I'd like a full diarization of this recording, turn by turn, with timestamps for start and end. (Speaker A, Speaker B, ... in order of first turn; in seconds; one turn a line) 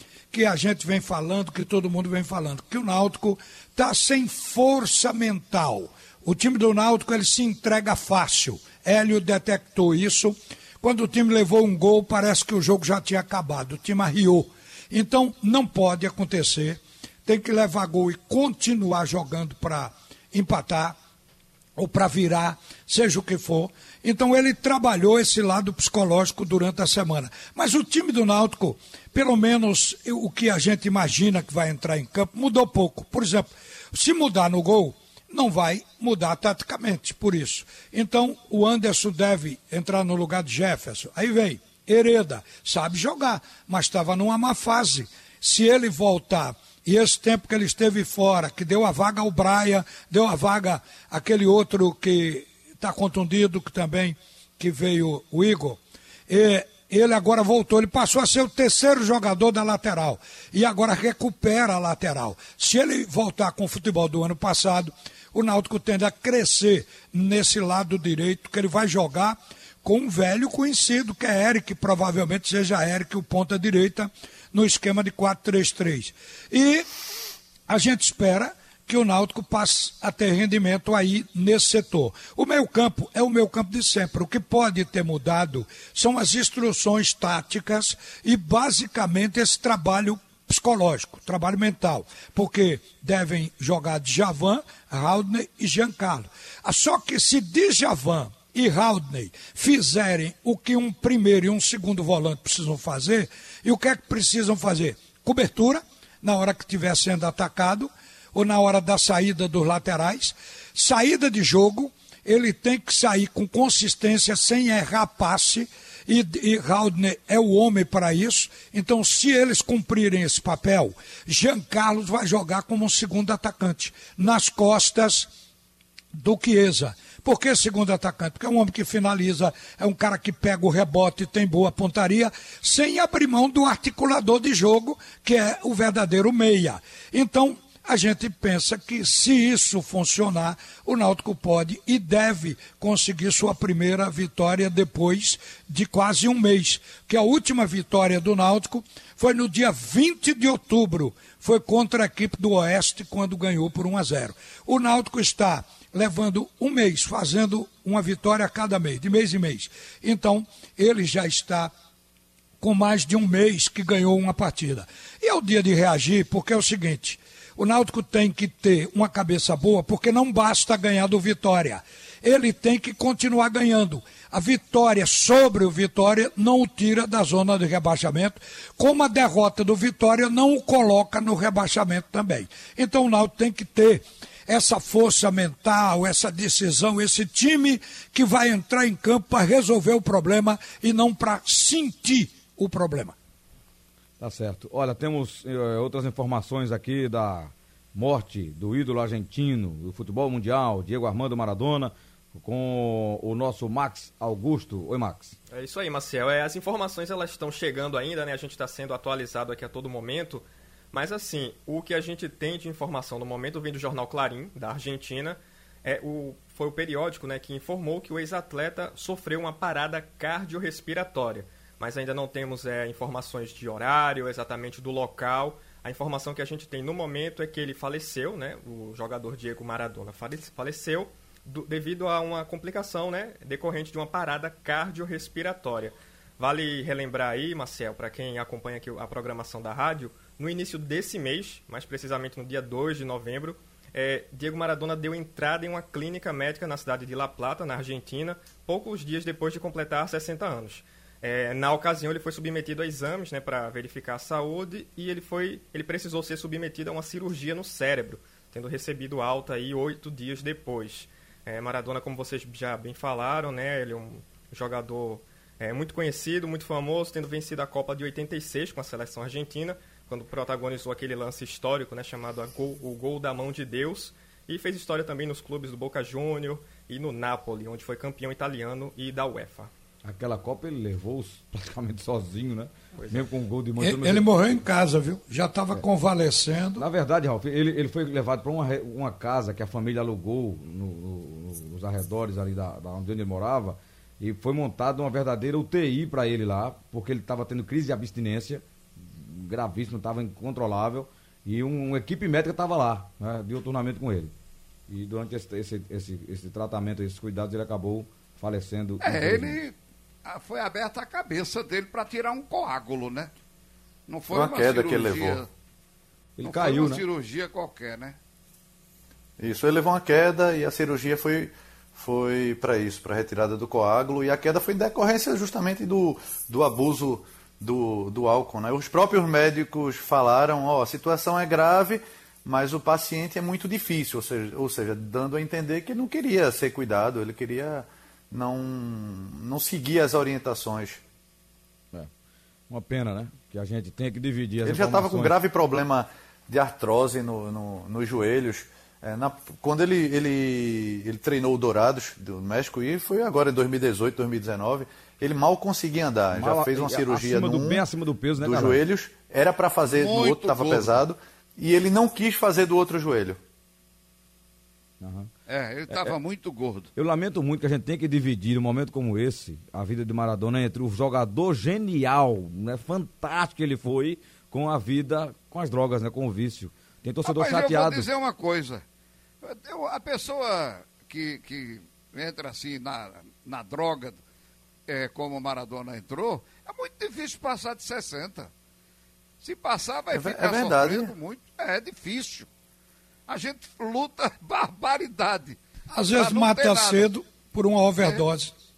Speaker A: 0.3-20.9
Speaker A: 21.8-76.8
Speaker A: 77.7-125.3
Speaker A: 126.1-161.7
Speaker A: 162.6-193.1
Speaker B: 194.2-205.3
Speaker C: 205.5-279.7
Speaker B: 280.0-284.3
Speaker A: 283.8-286.9
Speaker B: 286.8-304.3
Speaker B: 304.9-309.6
Speaker D: 309.0-309.7
Speaker D: 310.2-313.3
Speaker D: 314.1-315.5
Speaker E: 314.3-315.4
Speaker B: 316.4-317.0
Speaker D: 316.4-318.2
Speaker E: 319.4-341.0
Speaker B: 342.7-345.3
Speaker E: 344.6-357.8
Speaker B: 356.3-358.8
Speaker E: 358.4-363.4
Speaker D: 359.9-361.0
Speaker B: 365.0-365.3
Speaker D: 365.5-366.9
Speaker B: 365.9-366.1
Speaker B: 366.9-378.1
Speaker D: 377.2-378.8
Speaker D: 379.4-384.2
Speaker D: 384.9-388.5
Speaker D: 389.4-392.5
Speaker E: 390.1-391.1
Speaker D: 393.3-395.6
Speaker A: 395.9-398.5
Speaker D: 396.1-397.1